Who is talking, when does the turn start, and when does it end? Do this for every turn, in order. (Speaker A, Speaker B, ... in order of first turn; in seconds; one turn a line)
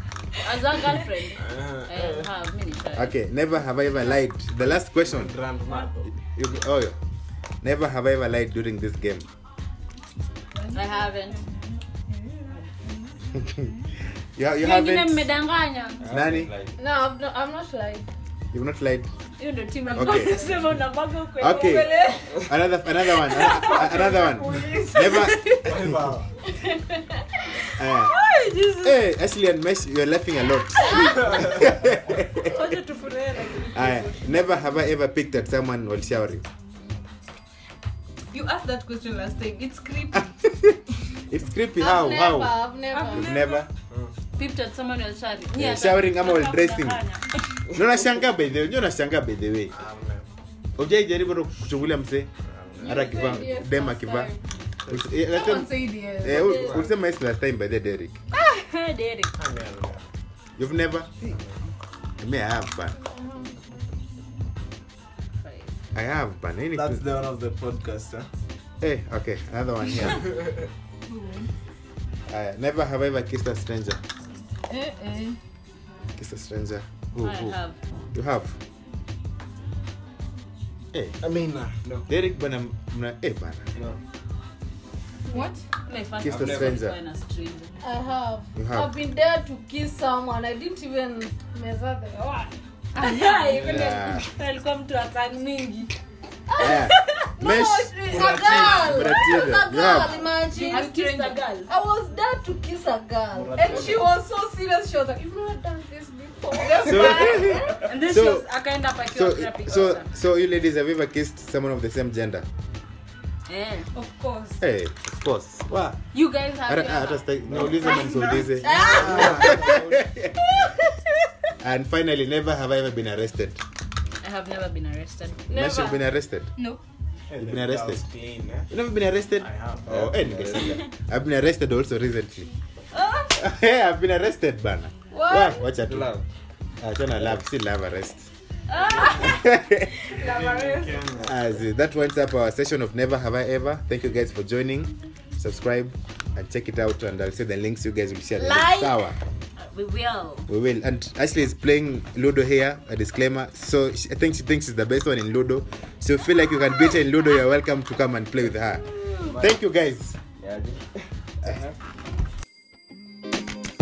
Speaker A: 0.3-3.1
Speaker B: 1.4-2.3
Speaker C: 2.9-5.3
Speaker B: 4.6-6.1
Speaker C: 6.2-7.0
Speaker C: 7.6-9.2
Speaker D: 10.6-13.1
Speaker A: 10.7-11.4
Speaker C: 14.3-15.3
Speaker A: 14.6-16.0
Speaker E: 16.0-16.8
Speaker C: 16.1-16.5
Speaker F: 16.8-18.0
Speaker C: 18.5-19.1
Speaker A: 19.4-22.1
Speaker C: 19.9-20.4
Speaker D: 19.9-20.6
Speaker C: 21.4-26.1
Speaker D: 21.5-22.1
Speaker D: 23.3-25.7
Speaker B: 25.6-26.3
Speaker C: 27.8-28.2
Speaker A: 28.0-29.0
Speaker C: 28.8-32.8
Speaker B: 31.1-32.0
Speaker A: 32.4-34.5
Speaker C: 33.7-36.4
Speaker D: 38.3-40.3
Speaker C: 40.1-40.8
Speaker C: 41.3-42.6
Speaker F: 41.8-43.4
Speaker A: 43.0-43.3
Speaker C: 43.1-43.7
Speaker A: 44.4-47.3
Speaker C: 45.5-47.0
Speaker C: 47.7-49.7
Speaker B: 49.7-50.2
Speaker C: 50.8-54.3
Speaker B: 52.4-53.4
Speaker F: 52.8-54.4
Speaker B: 54.9-55.1
Speaker C: 54.9-58.1
Speaker F: 55.3-56.8
Speaker E: 56.4-56.9
Speaker A: 58.3-59.3
Speaker B: 59.3-60.0
Speaker C: 60.6-61.1
Speaker B: 61.2-61.6
Speaker C: 62.2-63.0
Speaker F: 63.0-63.5
Speaker A: 65.4-65.7
Speaker C: 65.9-67.0
Speaker B: 66.7-68.3
Speaker C: 68.8-70.3
Speaker D: 71.1-71.5
Speaker C: 72.3-74.0
Speaker F: 74.8-75.3
Speaker C: 76.2-77.6
Speaker A: 77.2-77.8
Speaker C: 78.1-78.5
Speaker B: 81.2-81.7
Speaker C: 82.1-83.7
Speaker D: 85.3-85.6
Speaker A: 85.9-87.8
Speaker C: 86.2-87.0
Speaker E: 86.2-86.8
Speaker F: 87.8-92.2
Speaker C: 88.5-88.9
Speaker A: 92.9-95.9
Speaker E: 93.5-94.0
Speaker C: 93.6-94.3
Speaker F: 96.5-107.7
Speaker C: 96.6-100.2
Speaker E: 98.1-98.8
Speaker A: 100.5-101.7
Speaker D: 100.7-101.4
Speaker B: 103.3-104.1
Speaker E: 103.7-103.9
Speaker D: 106.6-107.4
Speaker C: 106.8-108.5
Speaker A: 107.9-110.1
Speaker C: 109.1-112.5
Speaker A: 113.5-114.5
Speaker D: 113.9-114.5
Speaker C: 114.6-116.0
Speaker A: 116.1-117.3
Speaker C: 116.6-120.7
Speaker B: 117.5-118.1
Speaker D: 117.9-118.9
Speaker F: 118.6-119.6
Speaker B: 118.8-120.0
Speaker C: 121.6-123.6
Speaker A: 124.2-125.7
Speaker C: 125.5-126.5
Speaker F: 125.5-126.0
Speaker B: 127.3-128.7
Speaker C: 127.4-128.0
Speaker C: 128.7-132.5
Speaker B: 129.4-130.6
Speaker E: 129.9-130.7
Speaker C: 133.4-136.1
Speaker F: 135.1-135.6
Speaker E: 135.8-136.2
Speaker C: 136.8-138.3
Speaker A: 138.7-139.0
Speaker B: 138.9-139.2
Speaker C: 139.1-139.9
Speaker D: 140.2-141.0
Speaker B: 140.2-141.5
Speaker C: 141.2-149.2
Speaker A: 149.7-150.5
Speaker C: 150.5-160.2
Speaker E: 160.4-160.9
Speaker E: 161.4-161.7